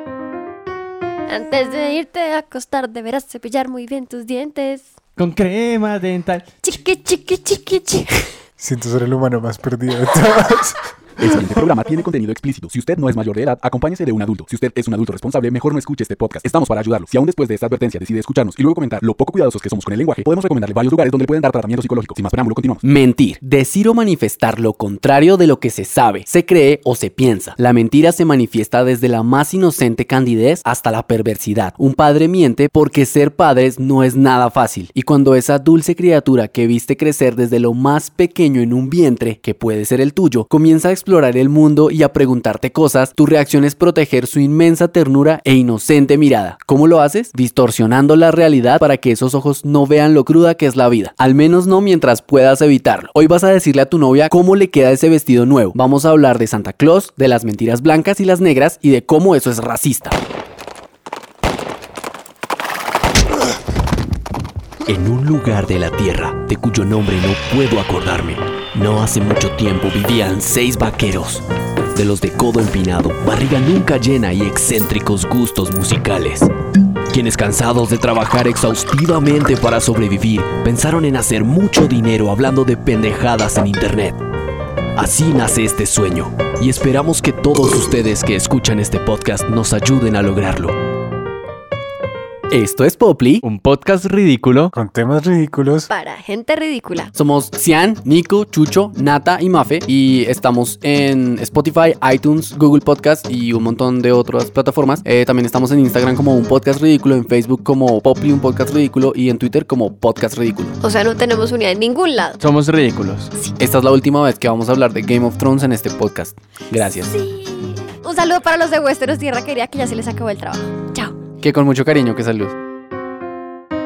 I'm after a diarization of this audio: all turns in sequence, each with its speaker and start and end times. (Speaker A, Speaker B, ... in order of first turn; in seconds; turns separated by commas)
Speaker A: 1.3-4.9, Speaker B: 5.2-6.5, Speaker A: 6.6-8.3, Speaker C: 8.6-10.9, Speaker D: 11.2-22.8, Speaker E: 22.8-60.1, Speaker F: 64.8-76.5, Speaker F: 77.1-84.2, Speaker F: 85.0-90.7, Speaker E: 92.5-93.4, Speaker B: 93.4-94.7, Speaker C: 94.7-95.9, Speaker A: 95.9-97.1, Speaker E: 97.1-110.8, Speaker A: 110.8-112.4, Speaker B: 112.4-113.3, Speaker E: 113.6-117.1, Speaker A: 117.1-121.1, Speaker E: 121.4-122.5